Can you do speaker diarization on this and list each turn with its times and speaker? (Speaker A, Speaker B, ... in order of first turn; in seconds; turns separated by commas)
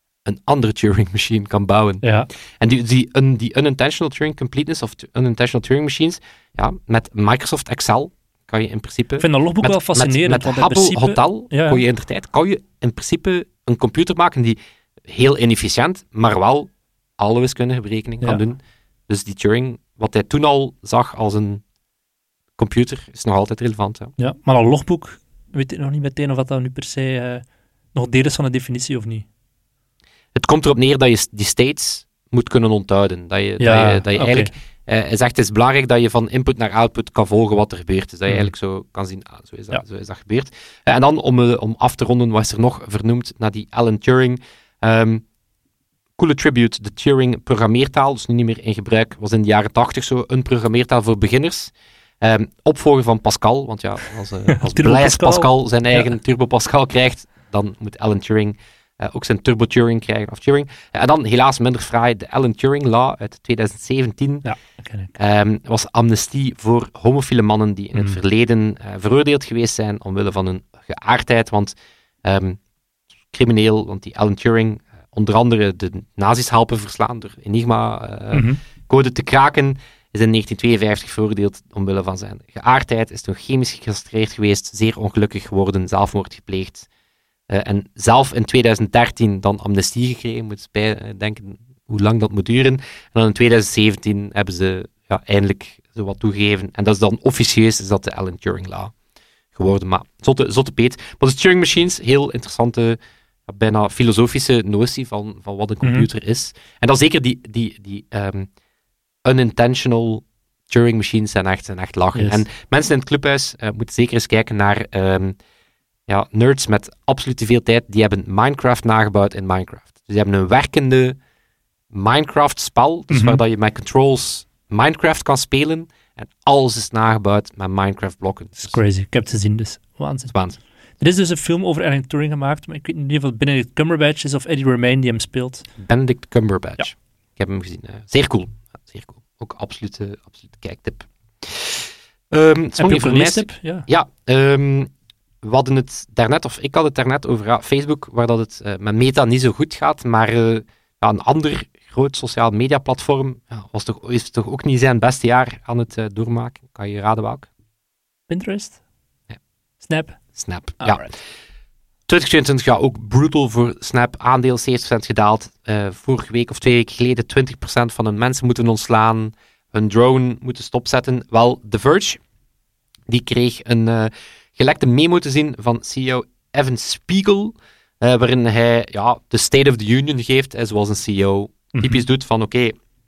Speaker A: 0.2-21.6, Speaker B: 2.0-2.3, Speaker B: 9.2-11.8, Speaker A: 22.6-24.1, Speaker B: 24.2-29.2, Speaker A: 30.3-45.2, Speaker B: 33.6-34.5, Speaker A: 46.2-64.5, Speaker B: 54.5-56.1, Speaker B: 64.4-65.1, Speaker A: 65.1-72.6, Speaker A: 73.3-86.9, Speaker B: 78.3-78.6, Speaker A: 87.5-98.9, Speaker A: 99.5-108.5, Speaker B: 105.8-106.1, Speaker A: 109.2-115.4, Speaker B: 112.1-112.4, Speaker A: 116.1-121.2, Speaker A: 121.9-128.8, Speaker B: 123.1-123.4, Speaker B: 128.6-130.3, Speaker A: 130.3-130.6, Speaker B: 131.0-135.7, Speaker A: 135.8-144.9, Speaker B: 142.8-143.8, Speaker A: 145.4-157.5, Speaker B: 158.3-158.8, Speaker B: 159.8-160.2, Speaker A: 160.3-161.1, Speaker B: 160.8-161.1, Speaker A: 162.1-172.2, Speaker A: 173.1-182.7, Speaker B: 181.7-182.0